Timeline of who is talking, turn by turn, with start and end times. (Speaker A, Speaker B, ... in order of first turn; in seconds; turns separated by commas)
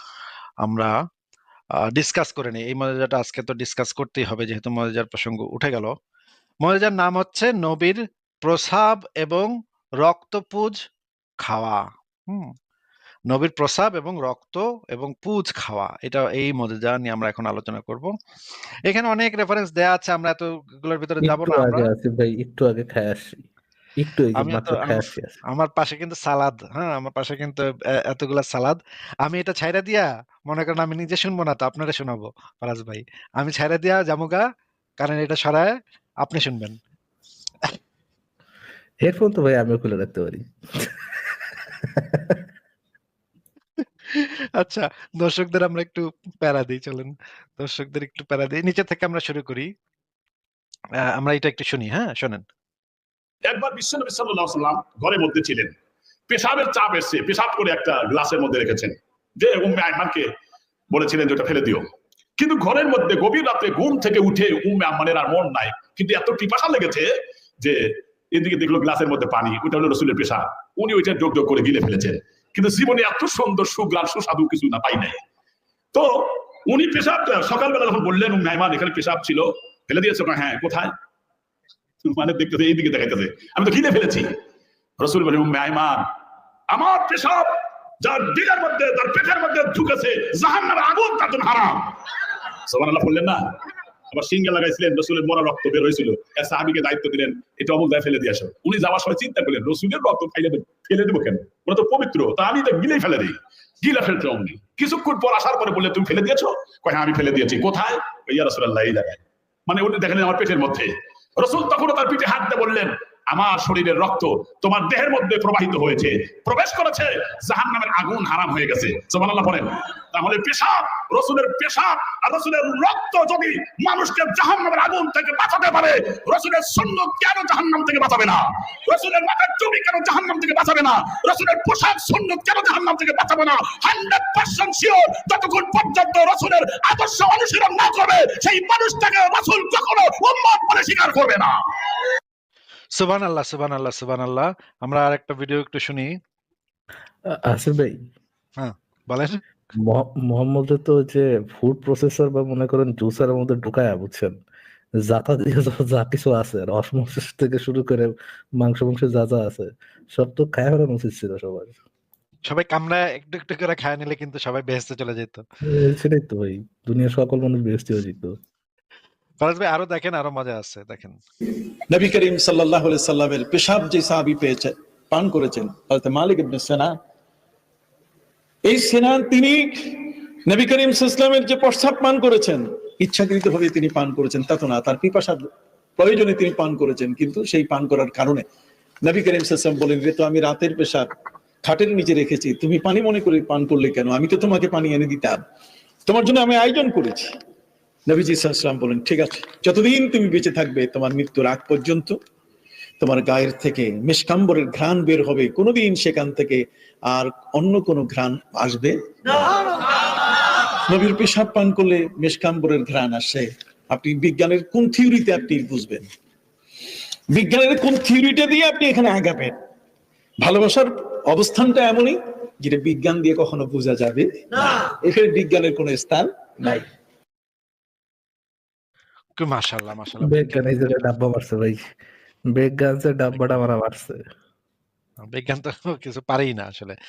Speaker A: 0.6-0.9, Speaker A: 1.9-5.9, Speaker A: 6.6-9.5, Speaker A: 10.0-10.8, Speaker A: 11.4-12.5, Speaker A: 13.3-18.1, Speaker A: 18.9-21.9, Speaker B: 21.2-23.4, Speaker B: 24.0-25.4, Speaker A: 24.4-34.4, Speaker A: 35.0-36.8, Speaker B: 39.0-41.0, Speaker B: 41.9-42.4, Speaker A: 44.1-49.7, Speaker A: 51.1-52.4, Speaker C: 53.5-55.7, Speaker C: 56.3-60.3, Speaker C: 60.9-75.2, Speaker C: 75.9-80.9, Speaker C: 82.0-84.3, Speaker C: 85.0-86.1, Speaker C: 86.7-92.0, Speaker C: 92.7-93.5, Speaker C: 94.1-141.6, Speaker A: 142.9-146.1, Speaker B: 147.3-148.0, Speaker A: 148.6-149.4, Speaker B: 149.8-154.4, Speaker B: 155.0-161.8, Speaker A: 162.5-165.4, Speaker B: 165.6-168.3, Speaker A: 169.4-171.2, Speaker D: 171.9-176.9, Speaker D: 178.6-185.4, Speaker D: 186.0-188.4, Speaker D: 189.0-191.1, Speaker D: 191.6-195.4, Speaker D: 196.1-197.3, Speaker D: 198.1-202.2, Speaker D: 203.0-209.5, Speaker D: 210.9-216.1, Speaker D: 217.3-219.5, Speaker D: 220.4-226.3, Speaker A: 229.4-231.0, Speaker B: 230.2-231.9, Speaker B: 232.5-234.2, Speaker A: 235.2-236.9